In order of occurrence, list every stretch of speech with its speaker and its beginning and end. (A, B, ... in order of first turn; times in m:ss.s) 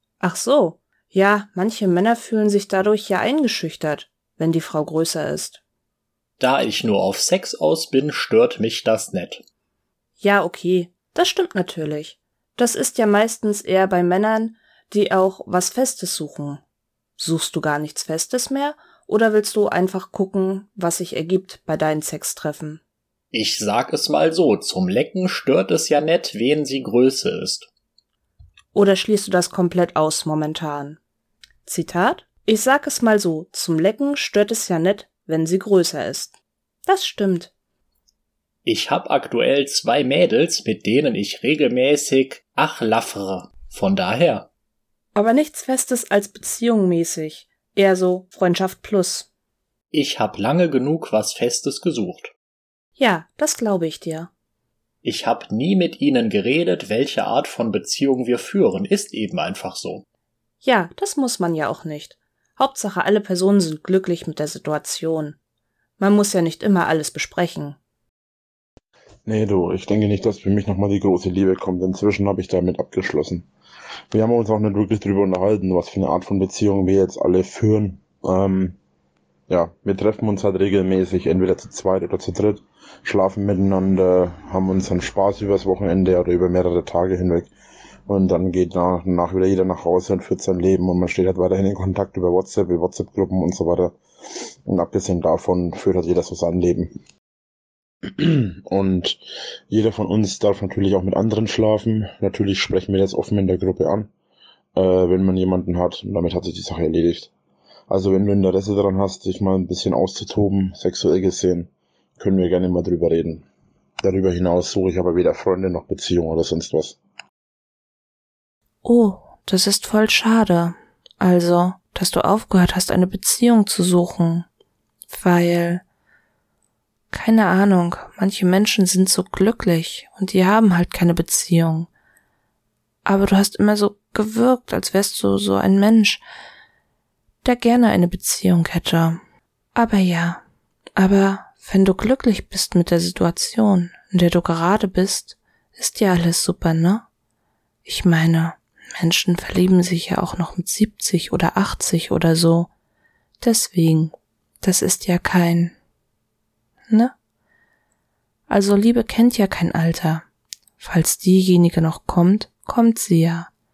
0:00.2-0:05.6 A
0:06.4-0:09.4 B
0:10.2-0:16.6 A
0:17.2-0:22.8 A
0:23.3-0:27.7 B
0:28.7-0:31.0 A
0:31.6-0:36.3 A
0:36.8-0:37.5 A
0:38.6-0:44.5 B
0:45.1-0:49.3 A
0:49.9-0:52.3 B
0:53.0-0:54.3 A
0:55.0-1:00.0 B
1:00.6-1:05.4 A
1:06.0-1:07.8 A
1:09.2-1:13.5 C
1:14.1-1:18.8 C
1:19.5-1:27.5 C
1:28.1-1:34.0 C
1:34.6-1:36.9 C
1:38.1-1:44.1 C
1:44.7-1:47.3 C
1:47.9-1:53.4 C
1:54.0-1:57.0 C
1:58.8-2:04.5 A
2:05.1-2:05.8 A
2:07.1-2:11.9 A
2:13.0-2:16.2 A
2:17.4-2:19.2 A
2:19.7-2:20.4 A
2:21.0-2:27.0 A
2:27.8-2:32.7 A
2:33.4-2:35.7 A
2:38.5-2:40.2 A
2:40.8-2:43.5 A